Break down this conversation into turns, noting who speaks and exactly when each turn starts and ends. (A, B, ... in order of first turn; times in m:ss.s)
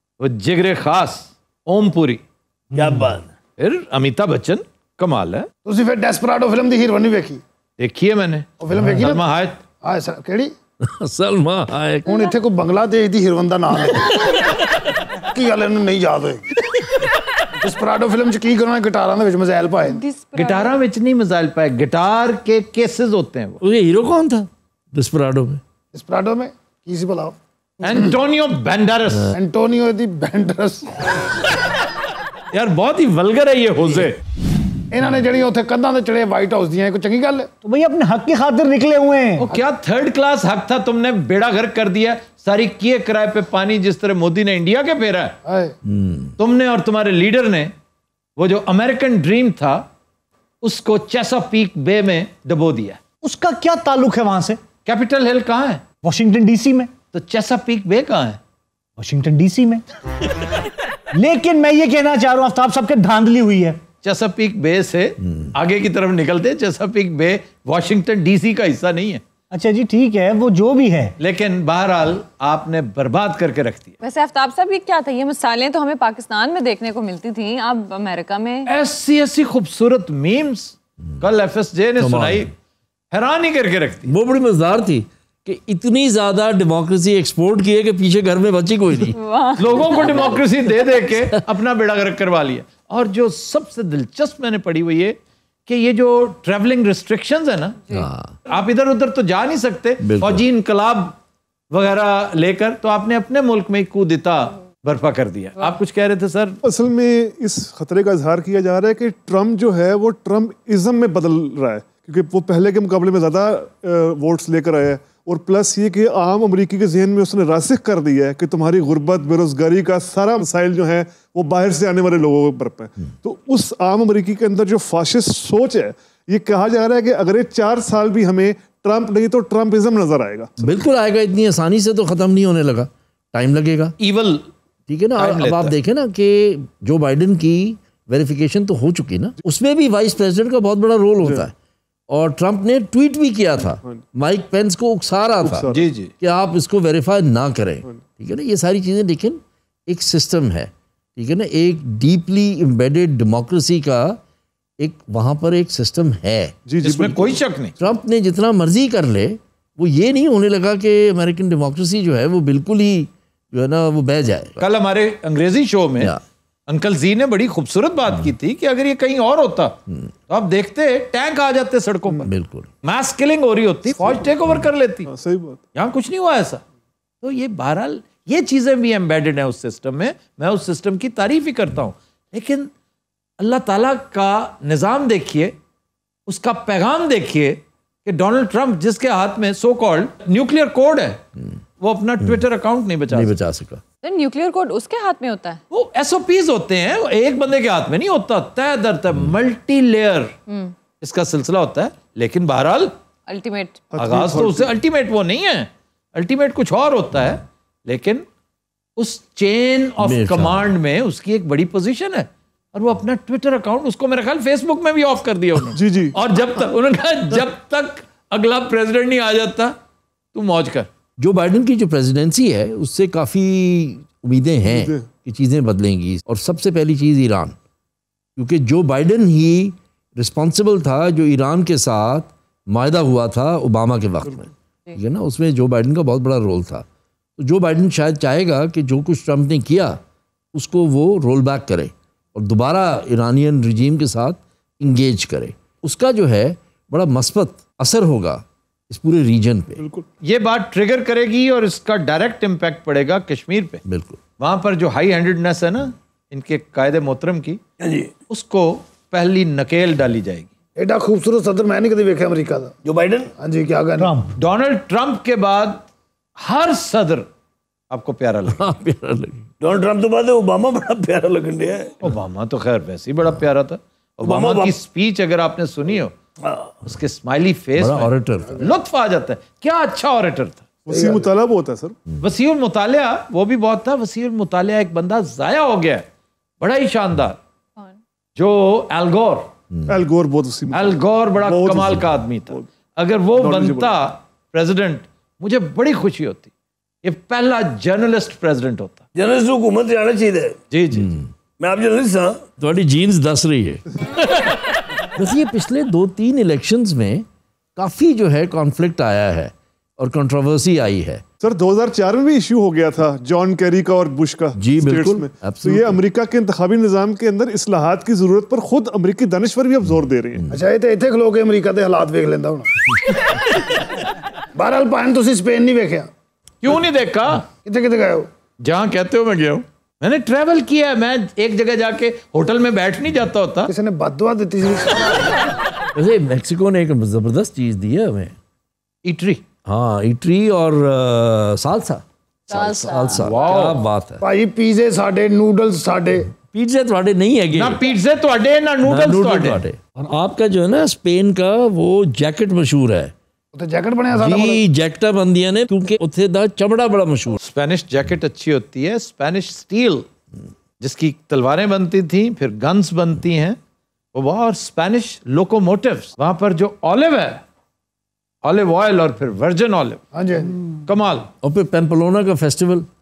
0:00.2-0:02.2 A
0:02.7-0:03.3 B
0:02.7-0:03.1 C
0:03.6-0:05.5 A
0:05.6-0:07.4 D
0:07.8-0:09.6 A
0:08.6-0:09.2 D
0:08.8-0:09.0 C
0:09.8-0:10.5 D
0:10.8-0:12.1 E
0:12.0-0:14.2 D
0:12.1-0:12.3 F
0:15.3-0:16.5 D
0:17.6-0:20.0 D
0:19.9-0:20.8 F
0:20.3-0:23.6 A
0:23.6-0:25.6 E
0:25.9-0:28.1 D
0:27.8-0:29.4 A
0:29.3-0:31.1 D
0:32.5-0:34.2 A
0:34.9-0:37.5 D
0:37.6-0:39.5 C
0:39.4-0:45.3 A
0:45.4-0:45.7 D
0:45.8-0:46.3 E
0:46.4-0:47.7 A
0:48.4-0:49.9 A
0:50.6-0:53.0 A
0:53.2-0:54.6 C
0:54.8-0:55.9 A
0:56.0-0:56.9 C
0:57.1-0:58.4 A
0:59.0-0:59.8 C
1:01.1-1:03.8 C
1:04.0-1:09.2 A
1:09.5-1:11.1 C
1:11.2-1:14.0 A
1:14.0-1:18.7 F
1:18.6-1:22.5 A
1:22.0-1:22.5 E
1:23.1-1:24.1 A
1:24.0-1:29.1 E
1:29.1-1:30.4 F
1:29.6-1:37.8 A
1:37.9-1:38.4 E
1:38.5-1:41.2 A
1:40.0-1:40.4 E
1:41.7-1:46.6 A
1:46.6-2:10.8 G
2:10.6-2:13.9 E
2:14.0-2:14.4 A
2:14.9-2:21.5 E
2:15.2-2:15.7 A
2:22.1-2:34.2 E
2:23.7-2:24.0 G
2:25.4-2:25.8 G
2:25.7-2:26.1 A
2:34.8-2:36.5 E
2:36.7-2:37.4 G
2:36.8-2:37.7 A
2:37.8-2:44.6 E
2:44.6-2:46.1 A
2:46.7-2:49.8 A
2:50.3-2:52.3 A
2:52.2-2:52.7 E
2:52.8-2:55.1 A
2:55.0-2:55.6 G
2:55.7-2:56.6 A
2:57.2-3:02.7 A
3:03.4-3:05.6 A
3:06.3-3:11.2 A
3:11.8-3:13.3 A
3:13.1-3:13.8 E
3:14.0-3:15.6 F
3:15.7-3:20.3 A
3:20.5-3:20.7 F
3:21.0-3:22.9 A
3:23.3-3:23.8 F
3:23.9-3:24.7 G
3:24.0-3:28.2 A
3:29.0-3:39.8 A
3:30.0-3:30.7 E
3:35.7-3:36.2 G
3:40.3-3:40.9 A
3:41.2-3:47.6 E
3:44.6-3:45.0 G
3:48.4-3:56.8 E
3:57.4-4:00.0 E
4:00.5-4:09.8 E
4:09.8-4:10.1 G
4:10.2-4:13.8 A
4:13.8-4:14.2 E
4:14.4-4:17.6 A
4:17.8-4:18.1 B
4:18.3-4:20.5 A
4:20.8-4:22.8 D
4:22.8-4:23.3 B
4:23.4-4:24.1 D
4:24.0-4:24.3 C
4:24.4-4:25.8 A
4:26.4-4:27.3 A
4:27.9-4:28.6 A
4:28.5-4:29.4 E
4:29.6-4:32.0 B
4:32.0-4:36.2 A
4:34.2-4:34.7 B
4:36.4-4:36.7 B
4:36.8-4:40.6 A
4:37.8-4:38.6 E
4:40.8-4:42.0 G
4:40.9-4:41.3 D
4:42.2-4:46.0 A
4:46.6-4:47.4 A
4:48.4-4:49.5 A
4:49.9-4:52.7 G
4:50.7-4:56.5 A
4:53.4-4:53.9 G
4:57.0-4:59.0 A
4:59.1-5:00.6 B
5:00.7-5:01.1 A
5:01.0-5:01.3 E
5:01.6-5:02.4 B
5:02.6-5:04.5 E
5:05.2-5:07.2 E
5:07.8-5:11.2 E
5:11.4-5:20.4 G
5:14.6-5:16.0 E
5:20.5-5:22.7 D
5:24.5-5:26.1 D
5:26.6-5:27.5 A
5:27.6-5:28.3 D
5:28.6-5:33.7 A
5:33.7-5:35.3 D
5:35.9-5:38.3 E
5:39.0-5:39.4 A
5:39.6-5:42.0 E
5:42.5-5:43.8 A
5:42.5-5:43.3 F
5:42.6-5:44.2 E
5:44.2-5:46.3 D
5:46.5-5:47.8 E
5:47.5-5:49.6 A
5:48.8-5:53.1 E
5:53.5-5:54.6 D
5:54.1-5:57.4 E
5:57.4-6:00.1 A
6:00.8-6:03.6 A
6:04.1-6:07.4 A
6:08.4-6:10.0 A
6:10.1-6:10.6 D
6:10.8-6:11.3 A
6:11.4-6:12.9 E